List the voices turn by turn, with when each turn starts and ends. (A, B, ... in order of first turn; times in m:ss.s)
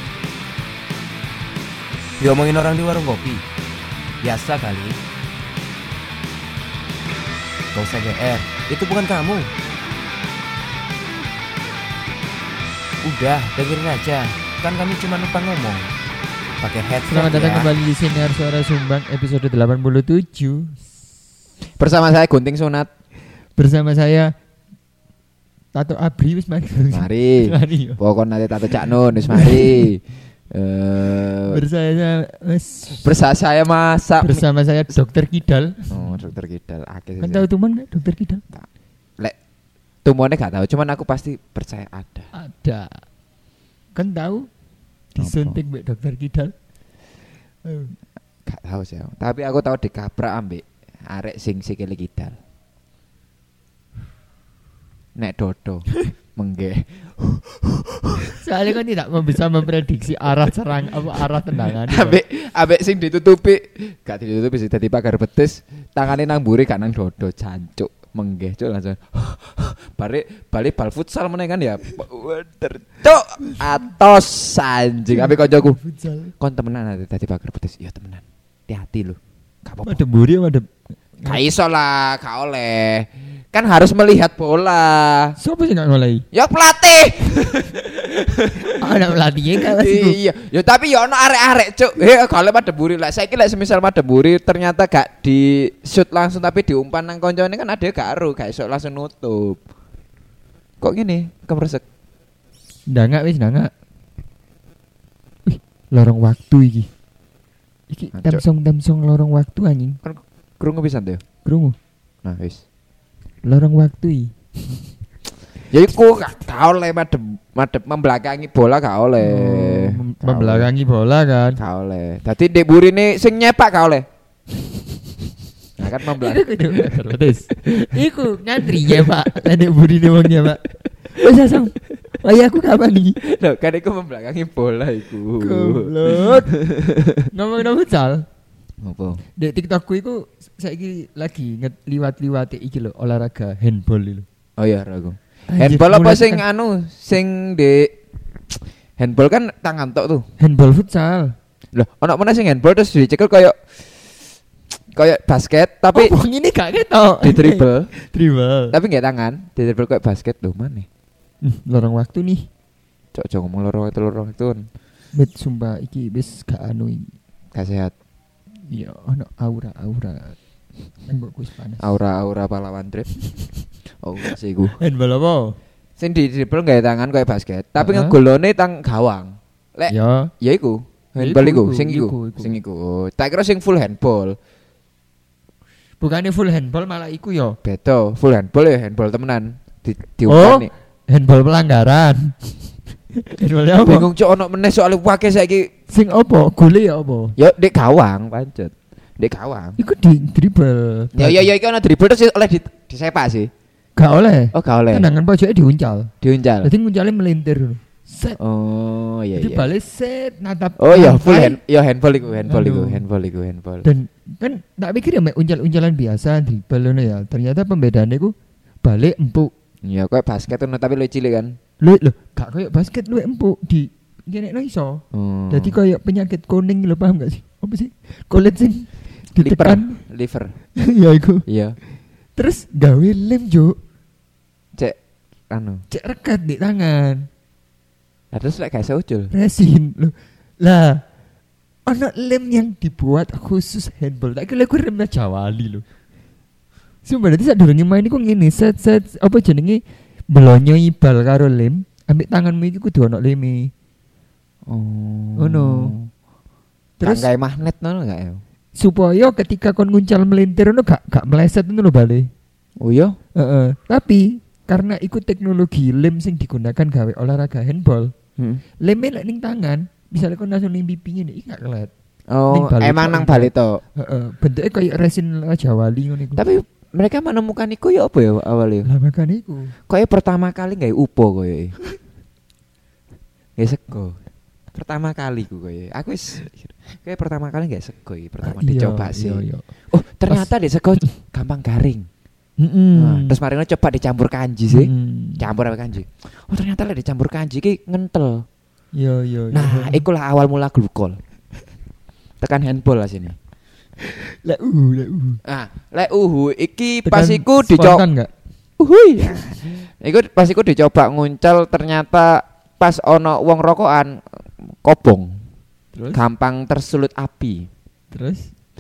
0:02.2-0:03.4 A
0:04.2-0:05.0 A
0:07.7-0:09.5 A
0:13.0-0:15.9 A
0:16.6-0:17.1 A
0:17.0-0:20.8 B
0:17.1-0:17.7 C
0:21.8-0:22.9 C
0:23.6-0:24.3 B
0:25.7-0:28.0 B
0:26.9-0:31.6 C
0:29.3-0:29.9 B
0:31.5-0:33.1 B
0:33.0-0:34.4 C
0:34.2-0:36.2 B
0:35.9-0:37.4 C
0:37.2-0:38.4 B
0:40.0-0:42.3 C
0:42.3-0:43.0 B
0:43.9-0:44.5 B
0:45.1-0:46.5 B
0:45.2-0:45.6 C
0:47.6-0:47.9 B
0:48.4-0:52.4 C
0:55.2-0:58.4 C
0:58.4-1:02.2 B
1:01.9-1:15.8 C
1:13.4-1:13.7 B
1:15.1-1:16.3 B
1:16.4-1:20.0 C
1:19.8-1:20.7 B
1:21.2-1:25.3 C
1:25.4-1:26.2 B
1:26.3-1:39.6 C
1:28.6-1:30.2 B
1:40.8-1:41.8 C
1:42.9-1:43.7 B
1:45.4-1:46.9 B
1:47.9-1:50.0 B
1:48.1-1:48.4 C
1:50.0-1:51.2 C
1:51.4-1:51.8 B
1:52.2-1:52.6 C
1:53.4-1:54.3 B
1:55.7-2:00.7 C
1:59.2-2:01.6 B
2:01.6-2:04.1 C
2:05.8-2:06.9 C
2:06.1-2:13.2 B
2:08.6-2:09.3 C
2:13.2-2:17.3 C
2:15.4-2:16.5 B
2:17.3-2:18.2 B
2:18.8-2:19.2 C
2:19.4-2:24.2 B
2:24.6-2:28.0 C
2:25.5-2:26.4 B
2:28.6-2:30.2 C
2:30.4-2:31.4 B
2:31.7-2:33.5 C
2:34.9-2:36.1 C
2:35.9-2:38.8 B
2:37.2-2:37.9 C
2:38.7-2:40.9 C
2:41.4-2:42.5 B
2:43.1-2:44.7 C
2:45.1-2:47.1 B
2:47.5-2:47.9 C
2:48.7-2:50.4 B
2:51.1-2:51.8 B
2:51.8-2:53.1 C
2:54.0-2:54.8 C
2:54.8-2:55.6 B
2:56.0-3:04.4 C
2:57.8-2:58.1 B
2:59.9-3:00.3 B
3:01.2-3:02.6 B
3:06.0-3:07.6 B
3:07.6-3:10.7 C
3:10.3-3:12.6 B
3:13.1-3:14.1 B
3:13.8-3:15.7 C
3:15.9-3:17.4 B
3:17.4-3:19.8 C
3:19.8-3:21.5 B
3:21.2-3:23.5 C
3:24.0-3:28.4 B
3:24.5-3:25.0 C
3:26.2-3:26.7 C
3:28.4-3:29.7 C
3:29.3-3:31.6 B
3:30.8-3:33.9 C
3:32.4-3:33.0 B
3:33.8-3:39.5 B
3:39.8-3:41.6 C
3:41.8-3:50.0 B
3:45.1-3:45.8 C
3:49.4-3:50.6 C
3:50.8-3:51.4 B
3:51.5-3:51.8 C
3:52.4-3:53.8 B
3:55.5-3:55.8 C
3:55.9-3:57.3 B
3:58.3-3:59.3 C
3:59.3-4:01.0 B
4:01.9-4:05.8 B
4:07.0-4:13.7 B
4:14.6-4:16.1 C
4:15.4-4:15.9 B
4:17.0-4:17.3 B
4:17.0-4:18.4 C
4:18.8-4:22.3 B
4:22.8-4:23.2 C
4:23.4-4:28.1 B
4:28.8-4:31.9 B
4:32.3-4:33.8 C
4:32.5-4:36.4 B
4:36.4-4:38.9 C
4:38.8-4:39.7 B
4:39.9-4:41.7 C
4:43.6-4:44.2 C
4:44.7-4:52.1 C
4:48.4-4:49.6 B
4:52.6-4:53.4 B
4:53.0-4:58.4 C
4:54.7-4:55.4 B
4:58.9-5:00.0 B
4:59.5-5:01.2 C
5:02.4-5:03.4 C
5:04.1-5:05.4 B
5:05.4-5:08.0 C
5:07.0-5:08.3 B
5:08.8-5:15.4 C
5:15.9-5:16.2 B
5:16.1-5:17.7 C
5:18.1-5:18.5 B